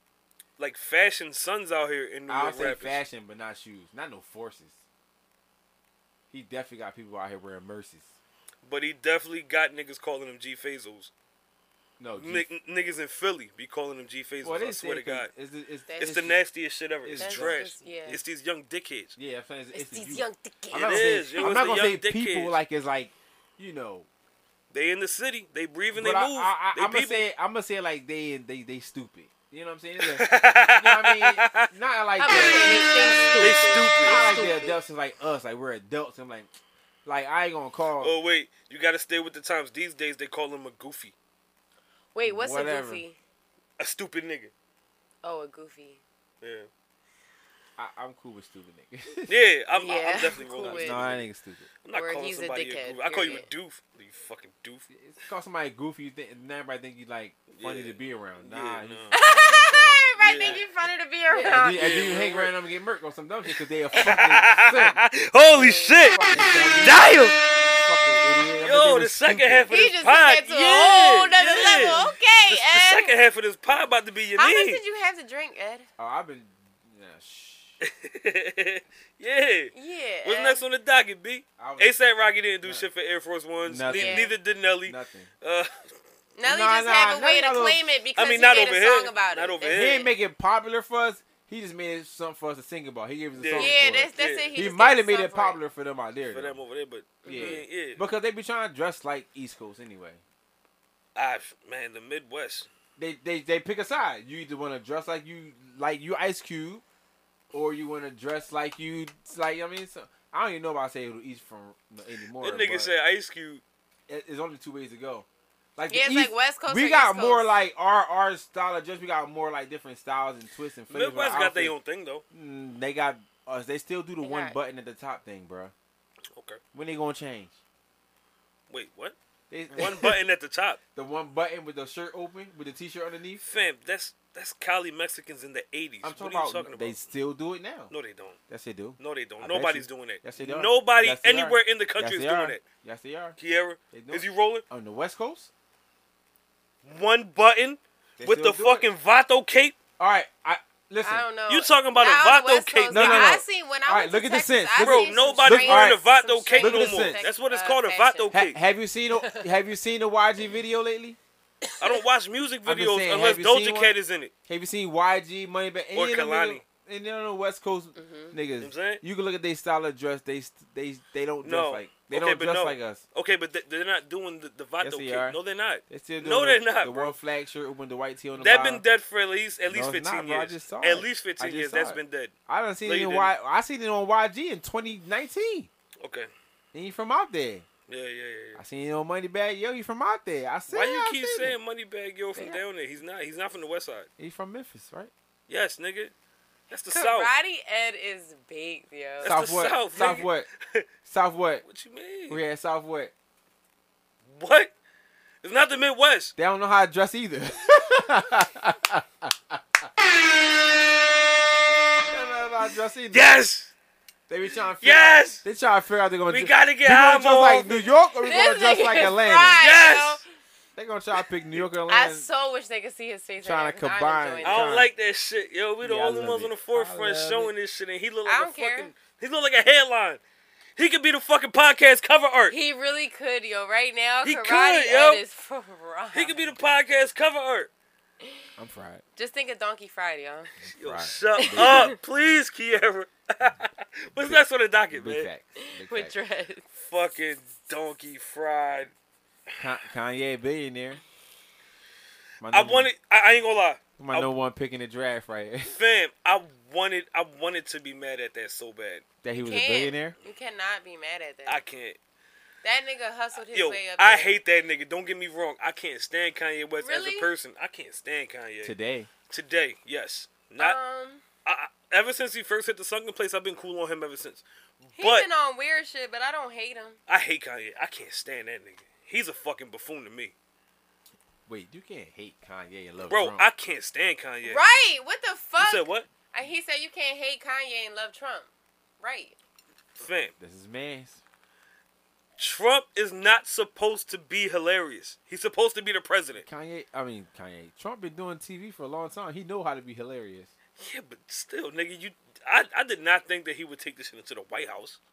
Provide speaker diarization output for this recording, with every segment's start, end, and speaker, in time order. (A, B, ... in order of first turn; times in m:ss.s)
0:00.6-0:03.0 A
0:02.3-0:04.8 B
0:06.3-0:08.2 B
0:08.6-0:11.1 A
0:12.0-0:12.5 B
0:12.2-0:15.3 A
0:14.4-0:16.4 B
0:15.9-0:16.2 C
0:16.0-0:19.2 A
0:17.0-0:17.8 B
0:17.2-0:18.2 C
0:19.2-0:24.1 B
0:19.7-0:21.6 C
0:20.7-0:22.6 A
0:24.7-0:27.3 A
0:25.9-0:36.5 B
0:30.0-0:31.7 A
0:32.2-0:34.8 C
0:33.4-0:34.2 A
0:37.0-0:38.2 B
0:38.0-0:41.2 A
0:42.1-0:43.2 C
0:42.2-0:43.0 B
0:43.8-0:44.5 A
0:45.2-0:46.0 C
0:46.4-0:46.7 A
0:47.8-0:49.4 B
0:49.3-0:51.3 A
0:49.7-0:51.0 C
0:50.6-0:51.7 B
0:51.8-0:54.9 A
0:51.9-0:53.5 C
0:54.9-1:00.6 B
0:57.5-0:59.2 A
0:59.1-1:02.1 C
1:00.2-1:00.6 A
1:01.3-1:05.0 B
1:01.5-1:02.6 A
1:04.0-1:06.2 A
1:05.5-1:06.8 C
1:06.1-1:07.1 B
1:06.8-1:07.4 A
1:07.8-1:09.7 B
1:08.6-1:14.8 A
1:09.7-1:13.2 C
1:11.6-1:12.1 B
1:14.4-1:15.9 C
1:16.0-1:17.8 B
1:17.8-1:25.8 A
1:19.7-1:20.6 C
1:21.6-1:22.0 B
1:23.7-1:25.3 B
1:23.9-1:24.3 C
1:26.4-1:30.1 C
1:26.4-1:27.8 B
1:28.2-1:30.1 A
1:29.6-1:36.6 B
1:33.4-1:34.6 A
1:33.5-1:35.6 C
1:36.3-1:38.0 A
1:37.2-1:37.6 C
1:37.3-1:40.2 B
1:41.2-1:42.7 A
1:43.0-1:46.8 B
1:47.5-1:52.9 B
1:52.4-1:53.6 A
1:54.1-2:01.8 B
1:55.9-1:57.5 C
2:00.9-2:02.2 A
2:02.3-2:05.7 B
2:04.2-2:04.6 C
2:06.4-2:06.6 A
2:06.7-2:07.6 B
2:08.7-2:09.2 A
2:09.5-2:10.2 B
2:09.7-2:10.8 A
2:11.0-2:13.4 B
2:13.4-2:17.0 A
2:16.0-2:17.9 B
2:17.9-2:18.4 A
2:18.5-2:23.4 B
2:19.0-2:22.6 A
2:23.4-2:24.6 A
2:23.9-2:25.5 B
2:26.8-2:29.8 A
2:28.2-2:28.9 B
2:30.0-2:31.3 B
2:31.0-2:38.4 C
2:31.5-2:33.4 A
2:32.9-2:36.0 B
2:34.8-2:38.6 A
2:36.5-2:37.2 B
2:38.3-2:41.2 B
2:39.2-2:39.4 C
2:41.7-2:42.0 C
2:41.8-2:44.3 A
2:42.7-2:44.0 B
2:44.5-2:53.0 B
2:45.9-2:46.6 A
2:48.0-2:48.4 C
2:48.6-2:49.0 A
2:51.4-2:57.2 A
2:54.8-2:55.4 B
2:55.9-2:58.8 B
2:58.4-3:02.3 A
2:59.7-3:05.7 B
3:02.8-3:03.3 A
3:06.0-3:06.3 A
3:06.7-3:07.7 B
3:07.9-3:08.6 A
3:08.6-3:11.6 B
3:10.7-3:14.1 A
3:14.2-3:15.1 B
3:15.5-3:16.1 A
3:16.7-3:17.3 A
3:16.9-3:19.4 C
3:19.2-3:20.9 A
3:19.2-3:20.5 B
3:21.1-3:21.6 B
3:21.6-3:22.4 A
3:22.3-3:23.1 B
3:24.3-3:24.7 A
3:25.4-3:26.3 A
3:26.4-3:29.9 B
3:32.0-3:33.3 B
3:33.1-3:33.7 A
3:34.3-3:39.7 B
3:34.8-3:35.4 A
3:36.3-3:37.9 A
3:38.2-3:40.2 C
3:39.6-3:40.2 A
3:40.8-3:42.3 B
3:41.9-3:44.8 C
3:43.4-3:44.9 B
3:44.4-3:50.2 A
3:45.8-3:47.5 B
3:48.3-3:48.9 C
3:50.8-3:52.6 A
3:52.5-3:56.4 C
3:54.2-3:55.2 A
3:56.1-3:57.7 A
3:58.6-3:59.0 B
3:59.2-4:00.5 C
4:00.6-4:02.0 B
4:00.8-4:05.3 A
4:01.4-4:02.0 C
4:04.1-4:04.4 B
4:04.9-4:06.2 B
4:05.6-4:06.7 C
4:06.7-4:08.9 A
4:09.6-4:11.0 B
4:12.4-4:12.9 B
4:12.5-4:14.3 A
4:14.0-4:15.8 B
4:15.7-4:19.0 A
4:19.2-4:20.2 B
4:19.4-4:21.6 C
4:21.5-4:22.0 A
4:22.6-4:24.4 C
4:23.5-4:28.8 A
4:26.8-4:27.3 C
4:28.6-4:29.1 B
4:29.3-4:30.8 A
4:30.6-4:31.2 C
4:31.5-4:35.3 A
4:35.0-4:37.0 C
4:37.1-4:40.3 A
4:41.5-4:43.4 B
4:43.1-4:44.6 A
4:44.4-4:49.4 C
4:45.6-4:46.1 A
4:50.0-4:50.3 A
4:50.3-4:51.2 B
4:52.4-4:56.5 A
4:56.4-5:00.5 B
5:00.8-5:05.0 A